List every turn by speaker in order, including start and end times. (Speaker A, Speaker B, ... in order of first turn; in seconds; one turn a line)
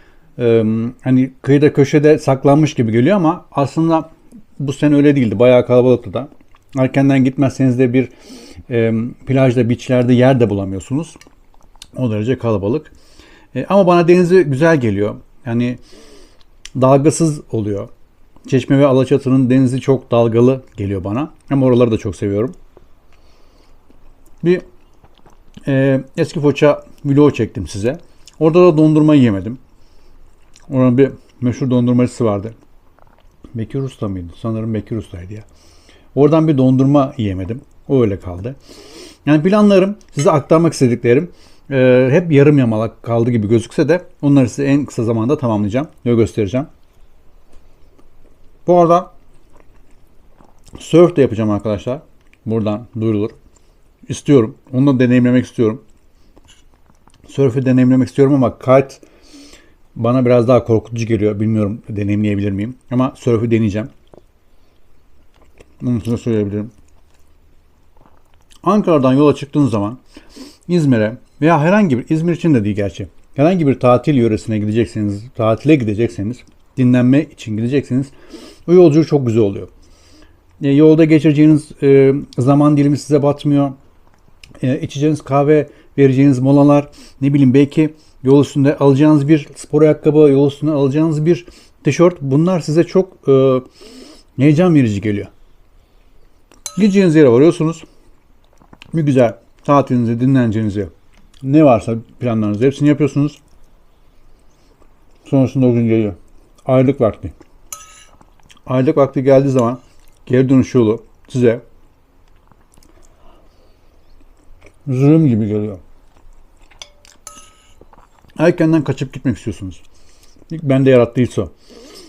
Speaker A: 0.4-8.1
Speaker A: 8.7-11.2
Speaker A: 11.9-12.9
Speaker A: 13.5-15.8
Speaker A: 16.8-17.9
Speaker A: 18.4-22.5
Speaker A: 25.6-29.6
Speaker A: 30.7-32.5
Speaker A: 33.5-35.5
Speaker A: 36.1-38.6
Speaker A: 39.2-46.7
Speaker A: 48.6-49.1
Speaker A: 50.8-53.3
Speaker A: 54.1-55.8
Speaker A: 57.2-59.0
Speaker A: 59.9-63.9
Speaker A: 65.8-66.7
Speaker A: 68.6-70.0
Speaker A: 70.7-78.1
Speaker A: 78.7-79.7
Speaker A: 80.6-83.8
Speaker A: 84.6-93.7
Speaker A: 94.4-95.3
Speaker A: 96.7-97.8
Speaker A: 98.9-100.9
Speaker A: 101.4-103.4
Speaker A: 105.2-107.3
Speaker A: 108.7-111.6
Speaker A: 114.8-115.8
Speaker A: 118.4-119.8
Speaker A: 120.5-121.5